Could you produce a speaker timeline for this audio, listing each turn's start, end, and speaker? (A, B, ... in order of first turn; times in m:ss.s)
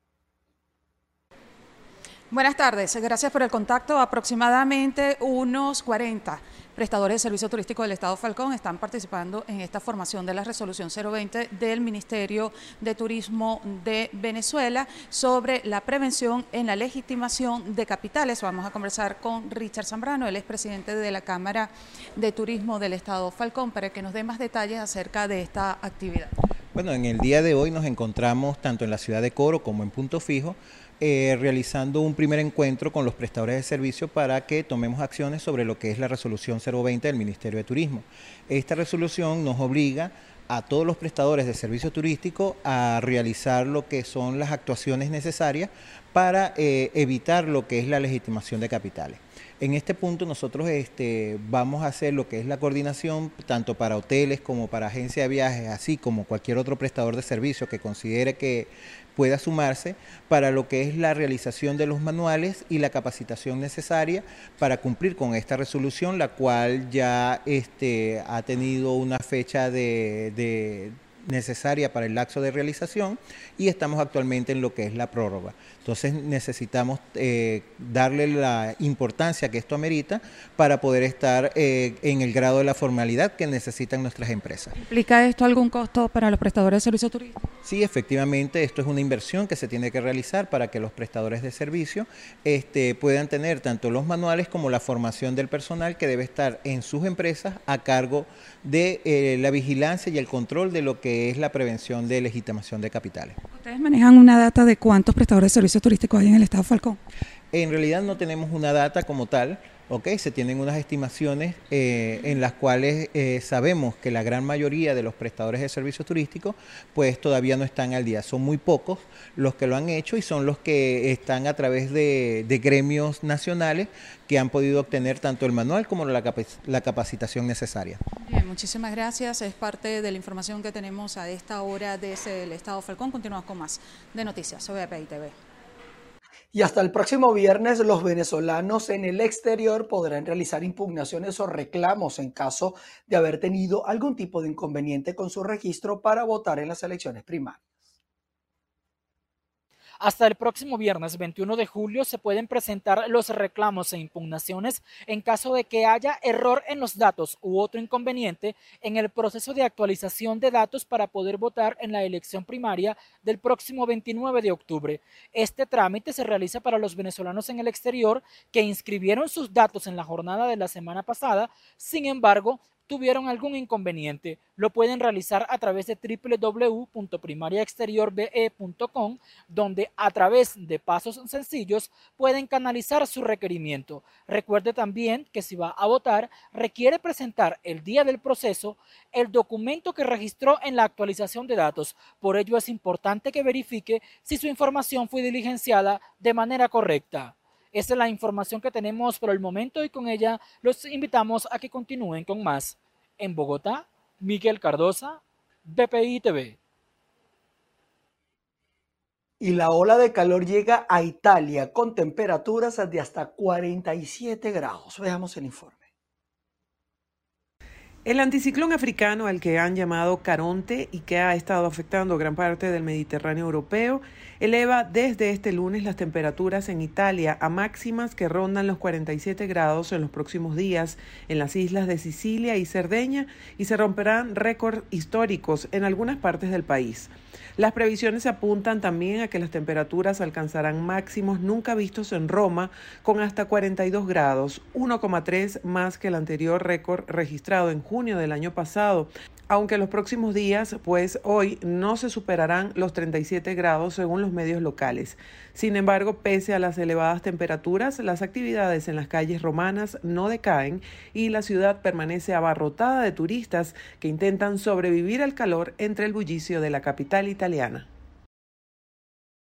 0:02.3-0:26.3 A
0:26.7-1:24.8 B
1:24.8-1:27.4 A
1:27.6-1:43.4 B
1:43.5-1:47.0 A
1:47.5-2:08.0 B
2:08.2-2:15.4 A
2:16.5-2:27.8 C
2:30.0-3:26.6 D
3:29.4-3:35.8 C
3:38.0-4:27.9 E